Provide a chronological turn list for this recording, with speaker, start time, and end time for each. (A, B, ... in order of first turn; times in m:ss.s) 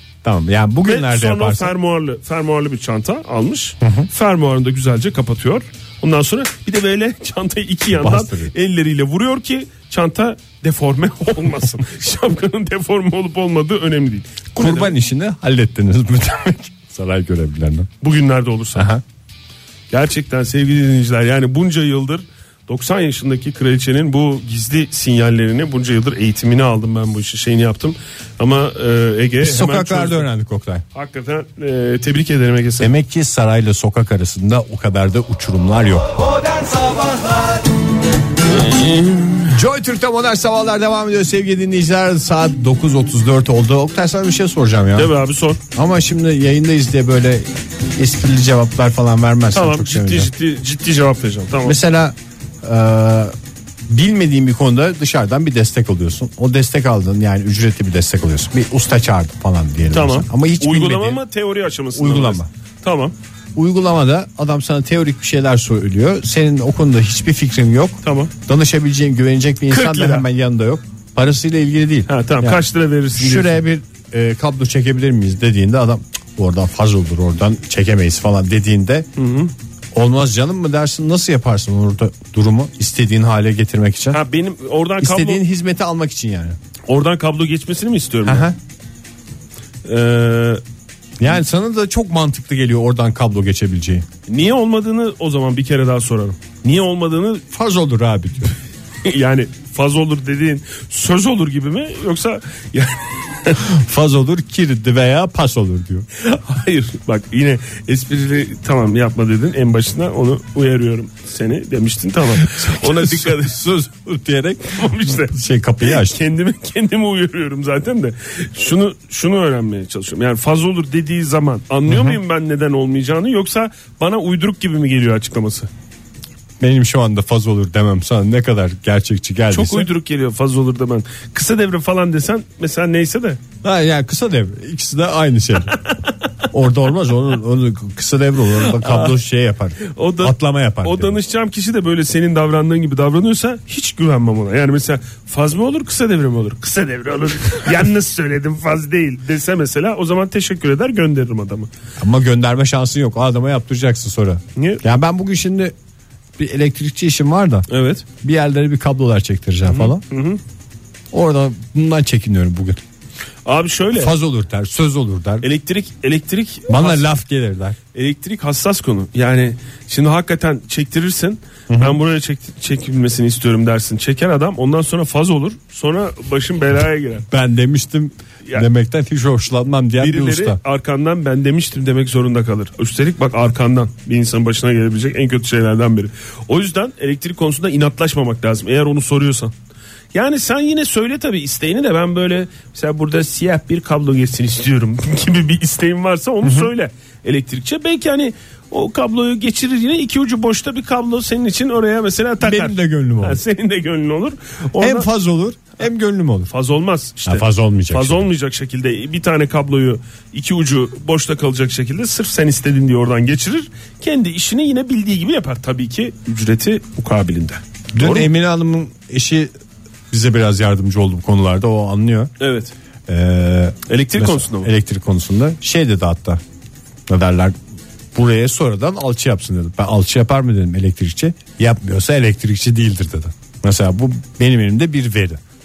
0:00.2-0:01.7 A
0:00.8-0:14.9 B
0:03.8-0:04.1 A
0:07.9-0:08.5 A
0:14.5-0:17.9 A
0:18.0-0:18.9 B
0:18.7-0:19.0 A
0:19.9-0:30.3 B
0:29.4-0:30.8 A
0:30.9-0:32.9 B
0:32.8-0:36.2 A
0:36.4-0:37.6 B
0:38.5-0:39.4 B
0:39.4-0:45.1 A
0:44.9-0:45.6 B
0:45.7-0:50.3 A
0:49.5-0:51.8 B
0:51.6-0:53.3 A
0:53.9-1:01.2 A
0:59.9-1:03.1 B
1:01.9-1:02.5 A
1:03.5-1:12.6 A
1:08.0-1:08.3 B
1:09.7-1:10.2 B
1:12.1-1:13.6 B
1:13.1-1:19.1 A
1:19.2-1:19.5 B
1:19.9-1:24.2 A
1:24.1-1:25.4 B
1:25.0-1:26.6 A
1:26.9-1:28.5 B
1:28.2-1:28.6 A
1:29.8-1:30.6 B
1:31.2-1:34.0 A
1:34.3-1:37.4 B
1:37.5-1:38.5 A
1:39.0-1:43.6 B
1:43.6-1:46.1 A
1:46.2-1:53.6 B
1:52.3-1:56.2 A
1:54.7-2:05.7 B
2:01.9-2:02.2 A
2:06.6-2:09.9 A
2:09.5-2:13.4 B
2:13.6-2:15.8 A
2:15.8-2:16.1 B
2:16.5-2:21.2 A
2:18.6-2:19.1 B
2:19.8-2:31.7 B
2:32.0-2:35.7 A
2:34.6-2:34.8 B
2:36.4-2:37.6 A
2:37.7-2:38.0 B
2:38.2-2:40.0 A
2:39.7-2:40.4 B
2:41.1-2:42.8 A
2:43.4-2:44.1 B
2:43.9-2:45.4 A
2:45.4-2:47.1 B
2:46.7-2:47.8 A
2:47.9-2:57.2 B
2:51.7-2:52.0 A
2:57.3-3:00.6 A
3:00.0-3:09.5 B
3:10.1-3:25.1 B
3:16.4-3:16.7 A
3:22.4-3:23.4 A
3:24.8-3:26.5 A
3:26.5-3:38.3 B
3:27.2-3:28.2 A
3:37.9-3:39.5 A
3:40.1-3:42.3 A
3:42.4-3:42.7 B
3:43.1-3:46.4 A
3:43.9-3:44.7 B
3:47.1-3:47.5 A
3:48.1-3:55.4 A